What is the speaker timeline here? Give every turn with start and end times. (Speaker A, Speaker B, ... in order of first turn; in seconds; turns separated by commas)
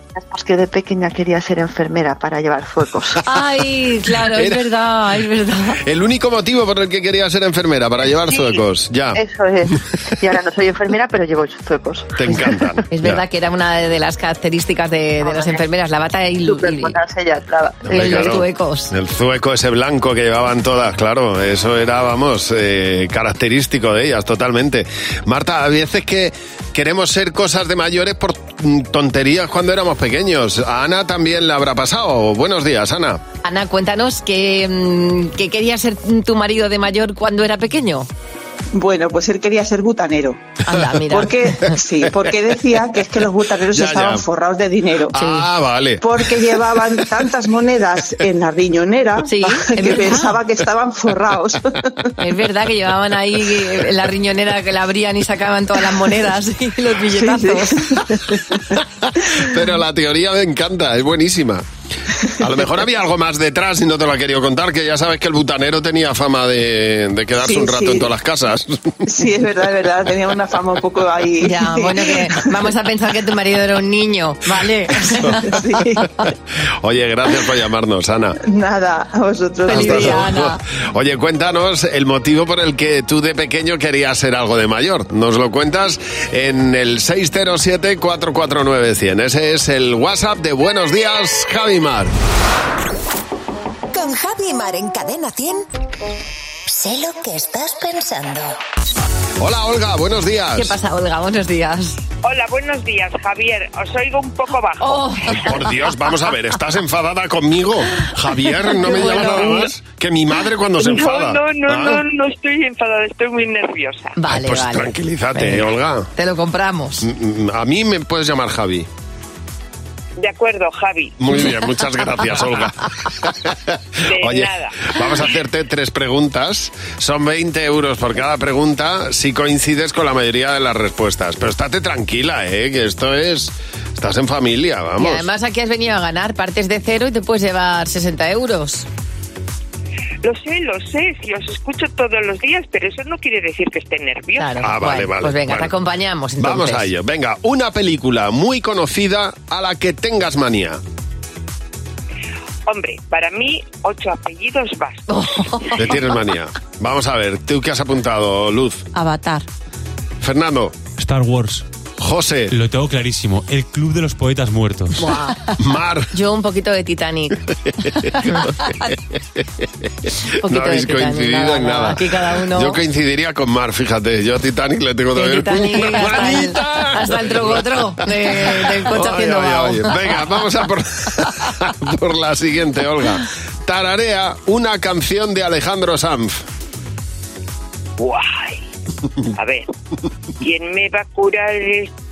Speaker A: 0.1-3.2, Speaker B: 3.2-5.8, Speaker C: 4.2-4.6, Speaker C: 5.8-9.2, Speaker A: 9.2-12.2, Speaker C: 12.2-13.2, Speaker B: 12.3-17.0, Speaker A: 15.2-15.6, Speaker A: 16.4-17.9, Speaker C: 17.9-33.2, Speaker B: 17.9-18.9, Speaker B: 33.4-38.1, Speaker D: 38.7-40.4, Speaker B: 40.7-41.7, Speaker D: 41.1-45.2, Speaker C: 43.7-44.2, Speaker B: 45.1-45.4, Speaker C: 45.1-46.3, Speaker D: 46.0-51.6, Speaker B: 49.2-50.4, Speaker B: 52.2-57.9, Speaker D: 57.1-58.6, Speaker C: 59.2-61.6, Speaker C: 62.4-69.0, Speaker D: 67.4-68.1, Speaker D: 69.1-72.5, Speaker B: 71.4-75.5, Speaker D: 75.1-76.0, Speaker C: 76.8-78.4, Speaker D: 78.4-80.3, Speaker B: 79.7-80.6, Speaker C: 79.7-92.1, Speaker E: 93.9-95.7, Speaker E: 96.7-98.6, Speaker C: 99.4-100.8, Speaker B: 100.6-102.0, Speaker F: 102.2-105.1, Speaker B: 104.8-105.6, Speaker C: 105.3-112.0, Speaker B: 108.7-109.7, Speaker F: 110.8-114.2, Speaker B: 114.2-117.1, Speaker C: 114.3-116.1, Speaker C: 117.0-118.9, Speaker F: 120.2-121.2, Speaker C: 121.2-123.5, Speaker F: 124.0-124.9, Speaker C: 124.2-135.3, Speaker B: 135.0-138.9, Speaker F: 140.2-144.6, Speaker B: 144.4-146.9, Speaker C: 144.6-145.7, Speaker C: 146.4-150.8, Speaker F: 152.7-155.7, Speaker B: 155.1-155.8, Speaker C: 155.8-158.8, Speaker B: 159.0-159.4, Speaker C: 160.2-160.8, Speaker G: 161.0-161.7, Speaker C: 162.0-162.5, Speaker G: 162.5-165.0, Speaker B: 165.0-165.5, Speaker C: 165.6-166.1, Speaker B: 166.1-167.4, Speaker C: 168.0-168.5, Speaker B: 168.2-168.9, Speaker B: 170.4-172.8, Speaker C: 170.5-177.7, Speaker B: 175.2-180.0, Speaker C: 178.4-186.4, Speaker F: 188.0-188.6, Speaker F: 189.3-189.7, Speaker F: 190.4-191.9